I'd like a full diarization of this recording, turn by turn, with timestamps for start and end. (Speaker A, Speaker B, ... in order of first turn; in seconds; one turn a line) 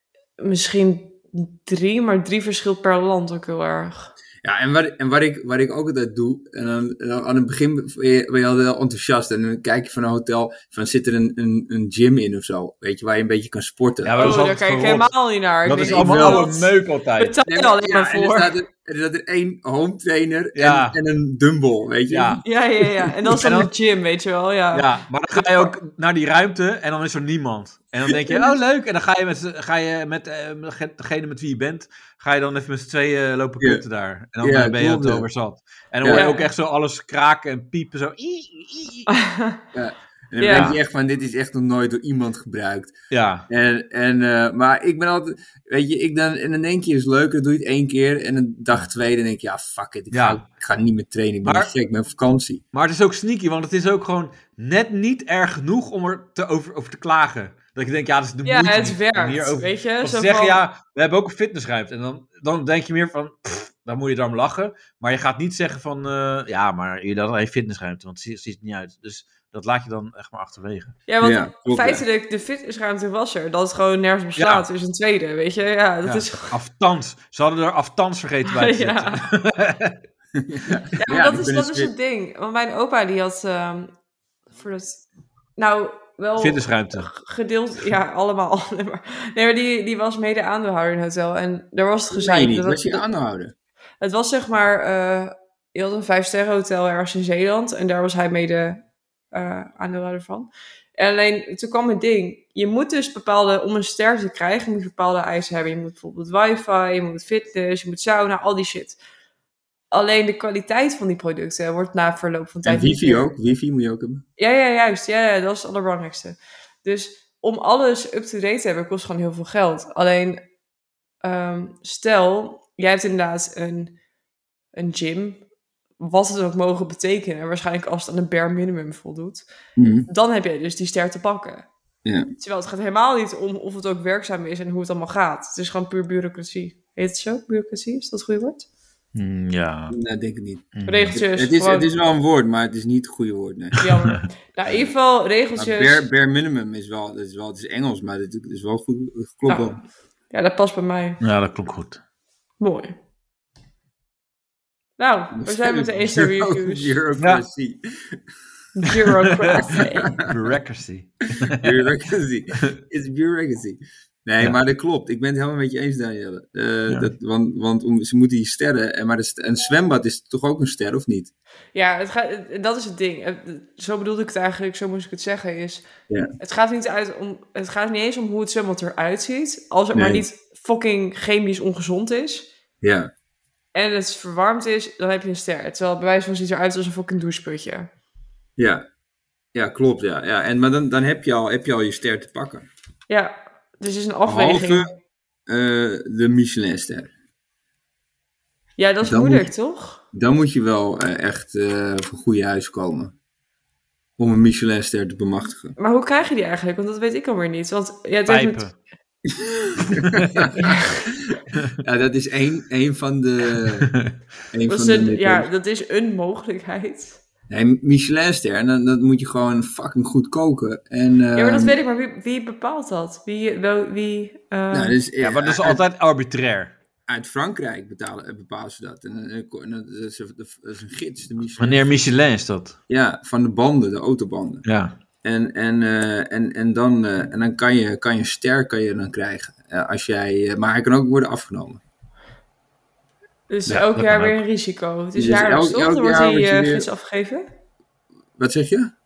Speaker A: 0.4-4.1
Speaker B: 4.4-14.4
Speaker C: 14.0-15.1
Speaker A: 14.2-18.5
Speaker C: 15.6-17.4
Speaker B: 15.8-16.5
Speaker B: 17.5-22.4
Speaker C: 20.6-21.0
Speaker C: 22.1-22.4
Speaker A: 22.4-25.7
Speaker C: 23.3-23.7
Speaker C: 24.7-39.1
Speaker B: 34.4-35.3
Speaker B: 36.0-36.3
Speaker A: 36.1-36.5
Speaker A: 39.1-39.6
Speaker B: 39.7-42.9
Speaker A: 40.4-40.7
Speaker C: 40.4-40.8
Speaker C: 43.1-43.5
Speaker B: 43.5-52.6
Speaker C: 50.1-50.4
Speaker C: 51.4-51.7
Speaker C: 52.7-71.0
Speaker A: 58.5-60.6
Speaker A: 71.1-76.5
Speaker B: 71.2-72.0
Speaker C: 74.4-74.7
Speaker C: 76.0-80.0
Speaker A: 78.5-79.2
Speaker B: 80.3-81.9
Speaker A: 81.0-83.9
Speaker A: 84.5-85.0
Speaker A: 85.6-93.0
Speaker C: 86.4-87.1
Speaker B: 92.1-93.5
Speaker A: 94.0-98.8
Speaker A: 99.3-109.0
Speaker A: 109.9-113.2
Speaker B: 112.7-114.2
Speaker A: 114.4-120.4
Speaker A: 121.2-124.0
Speaker A: 124.7-125.4
Speaker A: 126.0-129.4
Speaker B: 129.8-130.1
Speaker A: 130.1-131.7
Speaker A: 132.4-138.7
Speaker C: 139.2-140.0
Speaker B: 139.9-143.8
Speaker C: 140.8-141.2
Speaker A: 140.9-141.9
Speaker A: 143.8-146.0
Speaker B: 145.6-149.8
Speaker A: 149.5-149.7
Speaker A: 150.3-151.2
Speaker C: 151.2-152.0
Speaker A: 152.6-153.0
Speaker A: 155.0-157.0
Speaker B: 155.3-158.2
Speaker A: 158.8-160.1
Speaker C: 159.4-161.8
Speaker B: 159.8-160.2
Speaker B: 161.5-171.3
Speaker A: 171.7-175.9
Speaker A: 176.4-182.5
Speaker B: 179.9-180.2
Speaker B: 182.8-183.1
Speaker A: 183.8-187.9
Speaker B: 188.6-188.8
Speaker B: 189.5-192.7
Speaker A: 193.1-194.8
Speaker B: 194.3-194.9
Speaker B: 195.5-197.1
Speaker A: 198.8-200.0
Speaker B: 199.0-199.5
Speaker B: 200.1-203.2
Speaker B: 204.2-205.8
Speaker A: 205.8-208.7
Speaker C: 208.3-208.8
Speaker B: 209.4-210.8
Speaker C: 210.0-210.5
Speaker A: 210.6-211.1
Speaker B: 211.8-213.9
Speaker B: 214.5-215.5
Speaker A: 214.7-217.2
Speaker B: 217.5-221.8
Speaker A: 221.3-225.0
Speaker B: 224.7-225.8
Speaker C: 225.2-226.8
Speaker B: 227.1-231.9
Speaker C: 231.6-232.8
Speaker B: 232.9-234.7
Speaker C: 234.7-235.0
Speaker B: 235.2-241.8
Speaker A: 243.5-247.5
Speaker C: 243.7-244.4
Speaker B: 245.2-246.9
Speaker B: 248.4-248.9